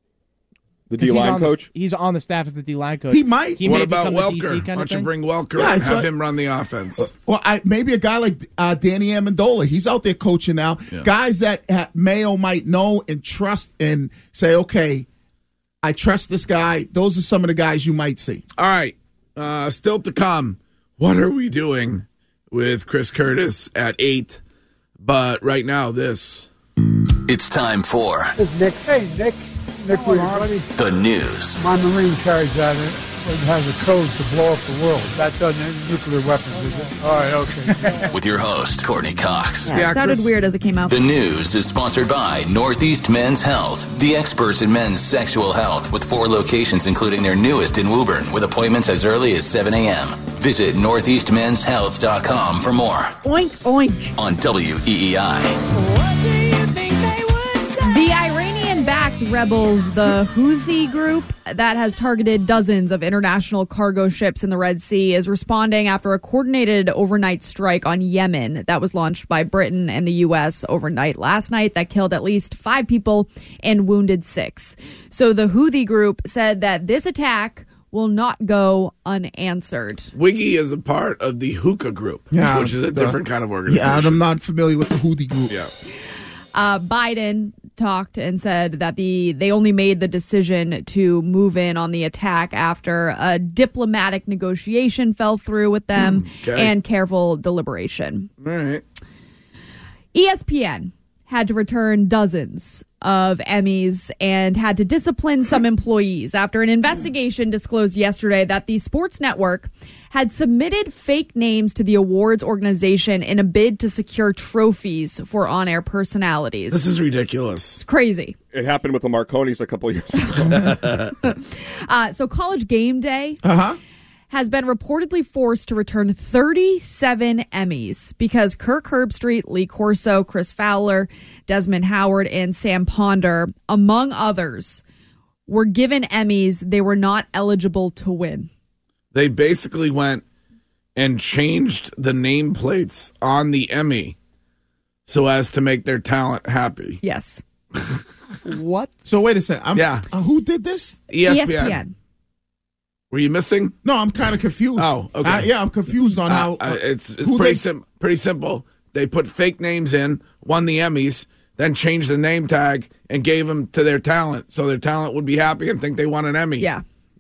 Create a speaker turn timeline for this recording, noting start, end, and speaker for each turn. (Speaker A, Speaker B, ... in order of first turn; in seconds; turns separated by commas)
Speaker A: 0.9-1.7, Speaker B: 1.0-5.1, Speaker C: 3.1-3.7, Speaker D: 3.6-7.1, Speaker C: 5.6-6.1, Speaker C: 7.1-15.1, Speaker C: 15.8-18.4, Speaker D: 18.6-24.4, Speaker D: 25.0-26.5, Speaker E: 27.3-28.3, Speaker F: 28.4-30.7, Speaker E: 30.8-31.6, Speaker F: 31.6-38.1, Speaker E: 38.1-39.8, Speaker G: 39.7-40.9, Speaker E: 40.9-53.2, Speaker G: 53.2-54.1, Speaker E: 54.2-55.6, Speaker G: 57.8-80.1, Speaker D: 80.1-84.2, Speaker C: 82.3-85.6, Speaker G: 86.5-98.3, Speaker D: 96.0-96.7, Speaker D: 98.4-98.8, Speaker G: 100.1-116.8, Speaker D: 116.7-117.8, Speaker G: 117.8-118.4, Speaker A: 118.5-120.7, Speaker G: 120.3-120.7, Speaker D: 120.7-121.1, Speaker G: 121.2-123.4, Speaker C: 123.4-123.8, Speaker G: 124.3-134.8, Speaker G: 135.5-138.5, Speaker D: 139.1-140.2, Speaker D: 141.0-144.2, Speaker D: 145.1-147.0, Speaker G: 147.0-147.4, Speaker B: 148.5-149.0, Speaker C: 149.1-151.0, Speaker D: 149.8-150.1, Speaker D: 151.1-151.8, Speaker G: 151.3-151.9, Speaker D: 153.1-153.8, Speaker C: 153.8-157.6, Speaker D: 154.8-155.5, Speaker D: 156.2-166.7